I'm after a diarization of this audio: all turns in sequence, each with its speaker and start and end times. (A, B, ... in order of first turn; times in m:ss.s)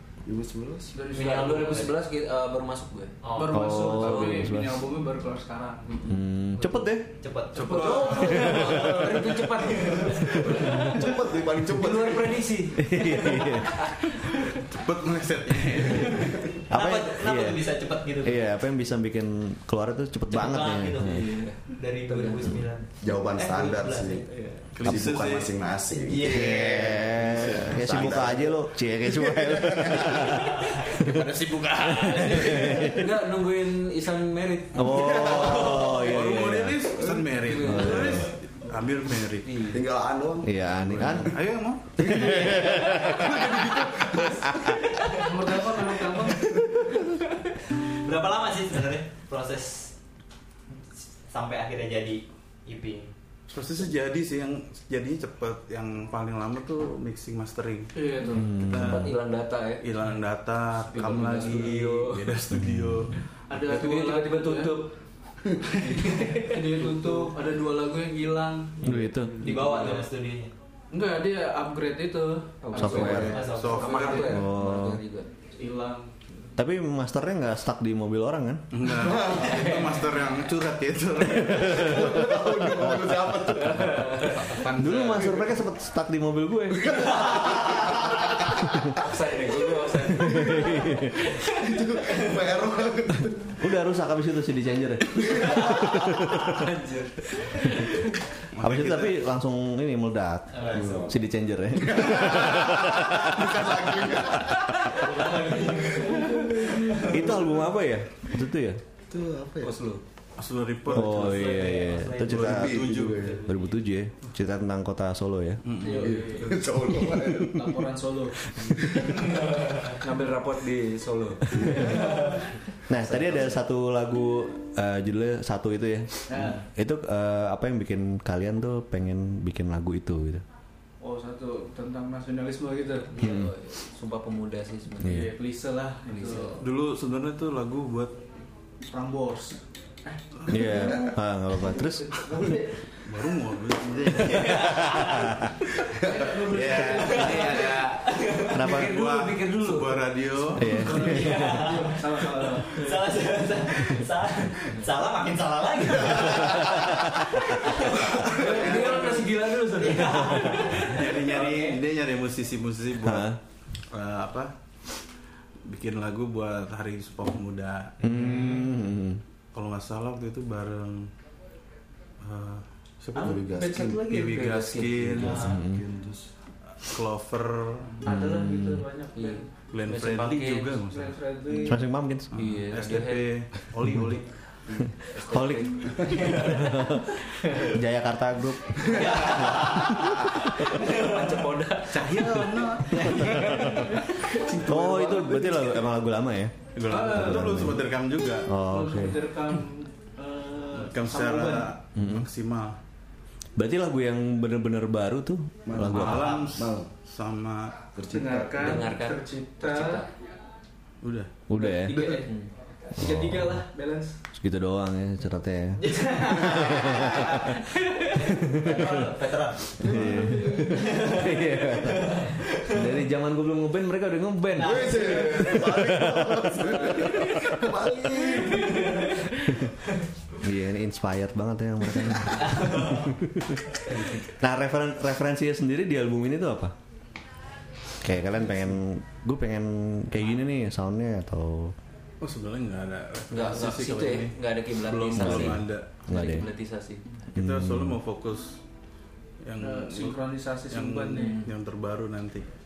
0:00.2-0:00.9 A
0:00.9-0:01.9 B
0:01.1-0:03.1 C
0:01.1-0:01.9 D
0:03.2-0:03.8 D
0:03.3-0:06.1 B
0:03.5-0:04.8 E
0:03.9-0:04.5 C
0:05.9-0:06.2 C
0:06.0-0:07.1 E
0:06.6-0:10.9 D
0:07.5-0:08.4 F
0:07.6-0:11.0 C
0:08.4-0:09.0 E
0:10.3-0:11.0 E
0:10.6-0:12.4 A
0:11.7-0:14.6 C
0:12.8-0:13.8 E
0:14.4-0:16.4 F
0:15.8-0:16.1 C
0:16.7-0:17.6 E
0:16.7-0:18.4 D
0:18.2-0:21.3 E
0:20.3-0:24.2 D
0:21.0-0:22.6 C
0:23.0-0:24.2 A
0:24.2-0:24.7 C
0:24.7-0:25.5 F
0:24.8-0:30.2 A
0:26.0-0:26.9 D
0:26.2-0:31.3 E
0:27.1-0:27.8 F
0:30.9-0:32.7 F
0:31.8-0:33.1 E
0:32.0-0:33.0 B
0:32.9-0:36.0 C
0:34.7-0:36.8 E
0:34.8-0:36.0 A
0:35.6-0:39.6 F
0:37.4-0:38.3 C
0:37.6-0:38.3 E
0:39.4-0:39.8 C
0:39.7-0:41.4 A
0:40.4-0:41.4 E
0:40.9-0:44.0 F
0:42.0-0:44.8 A
0:42.1-0:43.1 E
0:45.1-0:46.6 B
0:46.6-0:46.8 A
0:47.8-0:49.9 D
0:51.3-0:53.1 D
0:53.5-0:57.9 F
0:57.9-0:58.6 B
0:58.3-0:59.1 E
0:58.6-0:59.1 F
0:58.6-0:59.8 C
0:59.8-1:03.2 F
1:00.9-1:02.4 C
1:02.5-1:03.1 E
1:03.5-1:04.8 B
1:03.6-1:04.9 C
1:05.8-1:07.3 C
1:06.0-1:09.9 B
1:08.8-1:09.4 E
1:09.4-1:10.5 D
1:09.4-1:10.0 C
1:10.9-1:14.4 B
1:12.6-1:15.3 C
1:12.8-1:13.4 E
1:13.2-1:13.9 D
1:13.4-1:14.3 F
1:14.3-1:15.0 E
1:15.6-1:16.1 B
1:16.6-1:18.8 E
1:18.7-1:22.0 F
1:18.9-1:19.8 A
1:19.3-1:20.0 C
1:21.4-1:23.8 E
1:21.7-1:24.1 A
1:23.6-1:24.6 C
1:24.2-1:25.5 F
1:24.6-1:26.9 E
1:26.7-1:29.0 A
1:27.5-1:27.9 C
1:28.9-1:31.6 C
1:30.2-1:31.1 E
1:30.2-1:33.6 A
1:33.6-1:36.6 E
1:35.1-1:35.7 A
1:35.4-1:38.1 C
1:37.6-1:37.9 E
1:38.5-1:39.1 F
1:38.6-1:43.7 E
1:40.5-1:41.1 D
1:40.7-1:41.2 A
1:41.7-1:44.9 A
1:44.3-1:44.6 E
1:45.0-1:46.4 C
1:45.0-1:47.0 D
1:45.7-1:47.0 A
1:47.0-1:48.8 E
1:49.1-1:49.8 A
1:49.6-1:50.0 C
1:50.4-1:53.3 F
1:50.9-1:55.7 E
1:51.6-1:52.4 D
1:52.3-1:53.4 A
1:55.6-1:56.1 F
1:55.8-1:56.6 B
1:56.0-1:57.7 A
1:57.4-1:58.5 B
1:58.5-1:59.4 A
1:59.9-2:02.0 C
2:01.5-2:02.0 A
2:01.7-2:02.4 B
2:02.9-2:10.4 E
2:03.1-2:03.4 C
2:06.3-2:06.6 B
2:11.0-2:13.2 B
2:13.1-2:15.3 C
2:13.2-2:13.5 E
2:15.0-2:15.3 E
2:15.0-2:16.6 B
2:16.0-2:16.6 C
2:16.6-2:18.2 F
2:18.9-2:21.1 B
2:20.5-2:22.2 E
2:21.7-2:22.8 B
2:23.0-2:25.0 F
2:24.5-2:25.5 E
2:24.6-2:25.1 D
2:26.0-2:27.7 B
2:26.6-2:30.2 C
2:28.5-2:29.0 E
2:28.5-2:30.7 F
2:30.5-2:31.6 E
2:30.7-2:33.0 B
2:30.8-2:38.2 D
2:36.1-2:37.4 E
2:38.2-2:41.8 C
2:38.5-2:39.2 B
2:38.7-2:39.0 F
2:39.8-2:41.1 D
2:40.8-2:43.3 F
2:43.0-2:43.4 E
2:43.9-2:44.5 F
2:45.6-2:48.0 F
2:48.0-2:49.2 E
2:48.1-2:48.6 D
2:49.5-2:51.1 F
2:52.2-2:53.4 F
2:53.1-2:54.2 A
2:53.5-2:55.4 C
2:53.6-2:54.0 B
2:54.0-2:55.5 F
2:54.9-2:56.3 A
2:55.3-2:55.8 E
2:56.8-2:58.0 F
2:58.0-2:59.5 B
2:58.0-2:58.9 E
2:59.1-3:00.8 C
2:59.7-3:01.2 F
3:00.8-3:01.8 B
3:01.6-3:02.3 E
3:02.3-3:04.3 F
3:02.3-3:03.4 C
3:03.8-3:04.2 E
3:05.0-3:06.8 C
3:05.2-3:10.7 E
3:08.9-3:10.0 D
3:08.9-3:09.7 C
3:10.4-3:12.2 C
3:11.9-3:13.2 F
3:12.9-3:14.0 C
3:13.0-3:13.8 E
3:14.5-3:15.7 B
3:14.6-3:17.8 E
3:16.7-3:18.6 F
3:16.9-3:17.8 B
3:18.4-3:19.3 E
3:18.6-3:21.8 B
3:20.7-3:22.8 F
3:22.0-3:22.3 E
3:23.6-3:26.4 E
3:25.6-3:26.9 A
3:25.9-3:27.8 F
3:27.9-3:28.9 A
3:28.1-3:30.0 B
3:28.6-3:30.1 C
3:31.0-3:31.3 F
3:31.5-3:32.1 E
3:31.6-3:32.3 B
3:32.2-3:32.5 C
3:32.9-3:34.2 B
3:33.0-3:33.6 E
3:34.3-3:37.6 E
3:35.8-3:40.1 D
3:38.2-3:39.1 E
3:39.8-3:41.0 A
3:39.8-3:47.1 E
3:40.6-3:42.8 D
3:44.5-3:45.7 D
3:44.6-3:49.2 A
3:50.4-3:56.7 E
3:52.5-3:53.1 D
3:58.0-4:01.7 E
4:02.2-4:05.9 F
4:03.3-4:07.0 C
4:05.2-4:06.4 E
4:07.3-4:08.6 F
4:07.4-4:08.0 E
4:09.4-4:10.2 F
4:09.6-4:11.4 B
4:10.7-4:12.4 F
4:11.1-4:11.5 C